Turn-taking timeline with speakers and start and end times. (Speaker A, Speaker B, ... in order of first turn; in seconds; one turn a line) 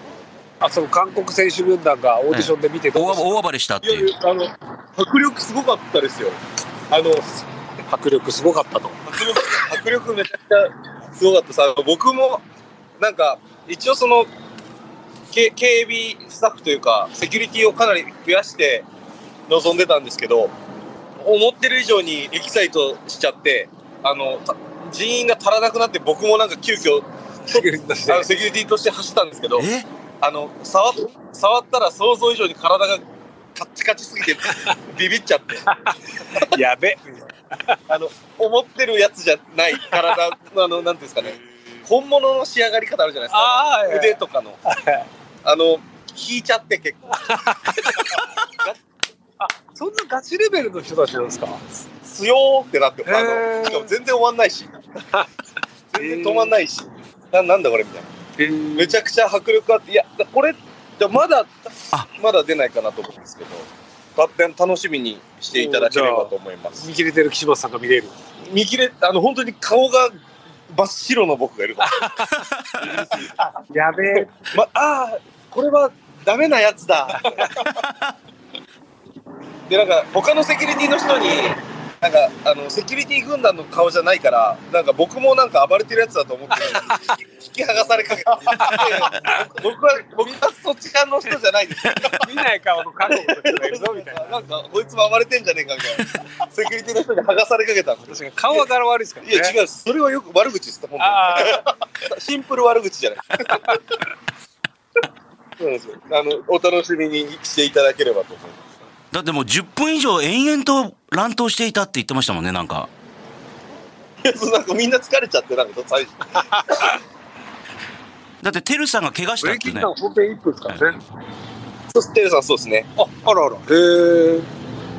Speaker A: 0.6-3.3
Speaker B: 2.3-4.1
Speaker C: 3.8-6.4
Speaker C: 6.9-7.4
Speaker A: 7.9-9.0
Speaker C: 9.1-12.4
Speaker C: 13.0-14.3
Speaker C: 15.3-18.9
Speaker C: 19.5-20.5
Speaker C: 21.2-29.7
Speaker A: 27.5-28.3
Speaker B: 29.6-29.9
Speaker C: 30.2-33.0
Speaker C: 33.5-35.7
Speaker A: 35.8-37.8
Speaker C: 37.9-44.6
Speaker A: 43.3-45.1
Speaker C: 45.4-48.8
Speaker A: 47.2-48.2
Speaker A: 49.4-51.6
Speaker C: 52.0-54.8
Speaker A: 53.0-53.9
Speaker C: 55.9-58.1
Speaker A: 56.0-56.6
Speaker A: 58.4-59.0
Speaker C: 58.7-66.8
Speaker A: 65.5-68.1
Speaker C: 68.5-72.2
Speaker A: 71.8-72.5
Speaker B: 72.4-73.0
Speaker C: 72.8-73.5
Speaker A: 73.5-74.4
Speaker C: 74.5-77.8
Speaker A: 77.1-77.7
Speaker B: 77.7-78.1
Speaker C: 79.7-92.3
Speaker A: 86.6-87.0
Speaker A: 88.6-89.4
Speaker A: 92.1-94.4
Speaker C: 93.1-98.6
Speaker A: 98.1-99.5
Speaker C: 99.2-104.0
Speaker A: 101.0-101.7
Speaker C: 105.6-108.6
Speaker B: 109.1-112.9
Speaker C: 114.2-117.0
Speaker A: 116.5-116.8
Speaker B: 118.4-119.9
Speaker A: 119.4-121.0
Speaker C: 121.9-122.9
Speaker A: 123.0-124.5